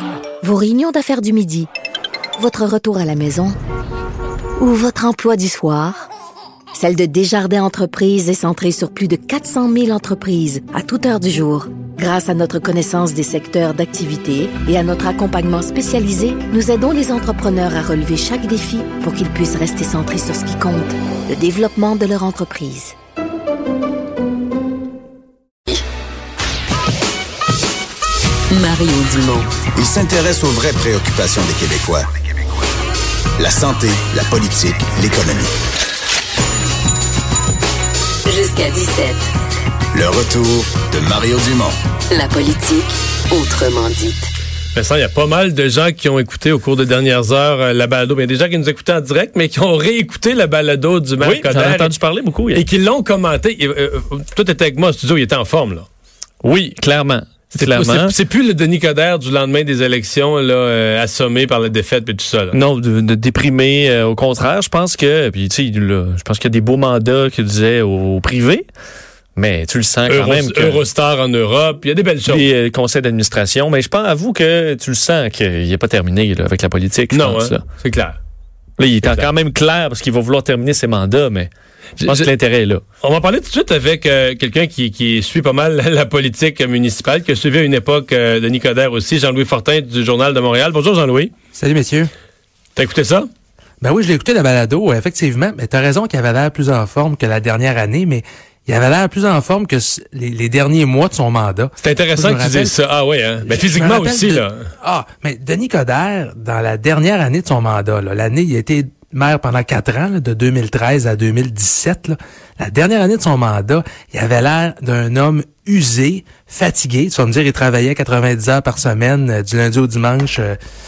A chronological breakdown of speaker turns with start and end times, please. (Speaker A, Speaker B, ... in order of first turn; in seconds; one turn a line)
Speaker A: 0.4-1.7
Speaker A: 2.4-3.5
Speaker A: 4.6-6.1
Speaker A: 6.7-22.9
Speaker B: 28.5-29.5
Speaker C: 29.7-32.1
Speaker C: 33.4-35.5
Speaker B: 38.2-39.2
Speaker C: 39.9-41.7
Speaker B: 42.1-44.3
Speaker D: 44.7-51.9
Speaker E: 51.2-52.6
Speaker D: 52.5-55.9
Speaker E: 56.4-58.1
Speaker D: 57.5-62.6
Speaker E: 62.5-68.7
Speaker E: 69.3-70.8
Speaker D: 70.1-72.4
Speaker E: 72.2-77.7
Speaker D: 77.1-78.2
Speaker E: 78.8-82.8
Speaker D: 83.0-91.3
Speaker F: 91.5-92.1
Speaker D: 92.8-93.3
Speaker F: 93.8-102.7
Speaker D: 101.8-104.6
Speaker F: 103.5-120.6